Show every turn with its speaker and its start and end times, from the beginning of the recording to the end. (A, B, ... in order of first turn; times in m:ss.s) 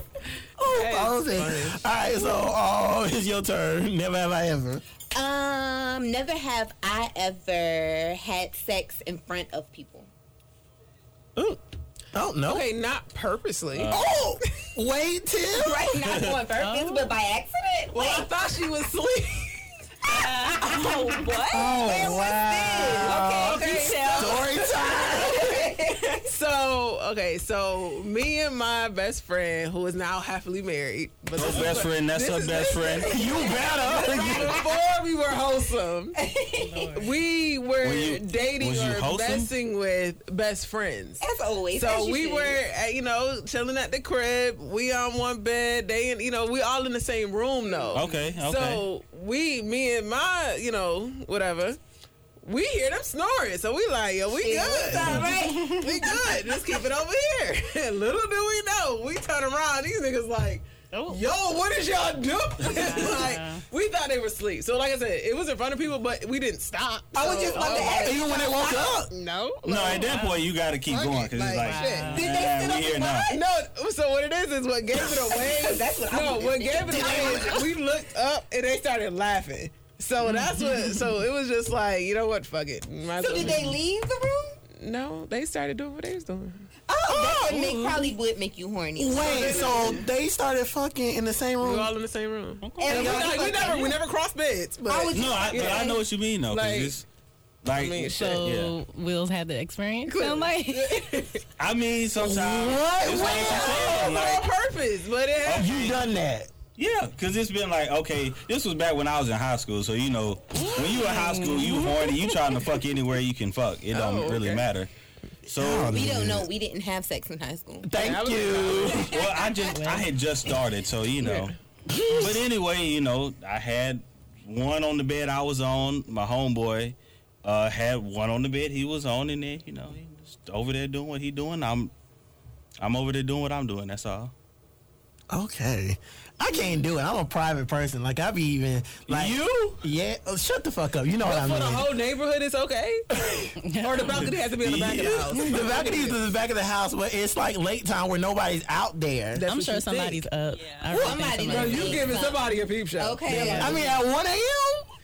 0:00.6-0:04.8 A
0:00.7-0:01.9 B
0:05.1-0:10.1 C
0:12.1-0:12.7 A
0:12.4-0:13.9 B
0:13.7-0:14.2 D
0:13.9-0:16.2 A
0:15.5-0:18.3 C
0:16.0-0:16.3 D
0:16.5-0:17.1 E
0:17.9-0:19.8 B
0:20.1-0:22.0 F
0:20.6-0:20.9 C
0:21.5-0:25.6 A
0:21.6-0:23.9 C
0:22.8-0:24.5 F
0:23.0-0:24.4 B
0:24.9-0:26.2 C
0:26.2-0:36.2 B
0:31.3-0:33.1 D
0:33.0-0:34.6 A
0:33.2-0:34.6 C
0:36.2-0:36.9 C
0:36.6-0:37.1 E
0:36.9-0:41.2 B
0:37.8-0:39.5 D
0:41.2-0:42.6 C
0:41.7-0:51.8 B
0:47.6-0:48.1 C
0:47.9-0:48.8 D
0:52.4-1:08.2 B
0:54.3-0:56.7 C
0:55.1-0:56.1 E
1:00.9-1:01.2 E
1:02.6-1:03.6 E
1:07.1-1:09.0 C
1:07.5-1:09.1 A
1:07.6-1:07.9 E
1:09.1-1:10.2 B
1:09.6-1:13.3 D
1:10.0-1:10.4 E
1:10.9-1:12.3 B
1:11.6-1:12.3 E
1:12.0-1:13.4 C
1:13.3-1:23.8 B
1:15.1-1:17.7 C
1:16.8-1:17.6 A
1:20.3-1:20.9 E
1:23.2-1:24.6 C
1:24.8-1:26.7 B
1:26.9-1:30.0 C
1:27.0-1:27.7 A
1:27.6-1:28.0 E
1:29.0-1:31.9 A
1:29.2-1:30.1 B
1:31.6-1:37.0 B
1:32.6-1:33.1 E
1:32.8-1:34.0 C
1:32.9-1:33.7 A
1:34.9-1:36.0 C
1:35.1-1:37.0 D
1:37.6-1:38.8 D
1:37.7-1:38.5 B
1:38.1-1:40.4 E
1:40.1-1:41.4 B
1:40.1-1:41.2 F
1:41.6-1:44.5 D
1:42.1-1:44.2 A
1:43.1-1:46.0 B
1:45.4-1:46.0 D
1:45.5-1:46.5 A
1:46.8-1:54.9 D
1:50.5-1:52.6 B
1:51.3-1:51.6 E
1:53.9-1:54.6 B
1:55.4-1:56.5 A
1:55.5-1:56.0 D
1:55.9-1:58.0 C
1:57.8-1:59.1 A
1:58.0-1:59.2 B
1:59.0-2:01.5 D
1:59.7-2:00.1 E
2:01.2-2:01.5 B
2:01.9-2:02.4 A
2:02.1-2:11.9 D
2:12.8-2:14.3 D
2:15.3-2:21.9 A
2:19.1-2:19.8 D
2:21.2-2:26.2 B
2:23.1-2:23.6 A
2:23.6-2:24.3 E
2:24.0-2:25.5 D
2:25.3-2:29.4 A
2:29.3-2:30.2 B
2:29.5-2:32.2 E
2:30.5-2:31.0 F
2:30.9-2:33.9 C
2:31.4-2:33.9 B
2:33.3-2:33.7 E
2:33.6-2:34.9 A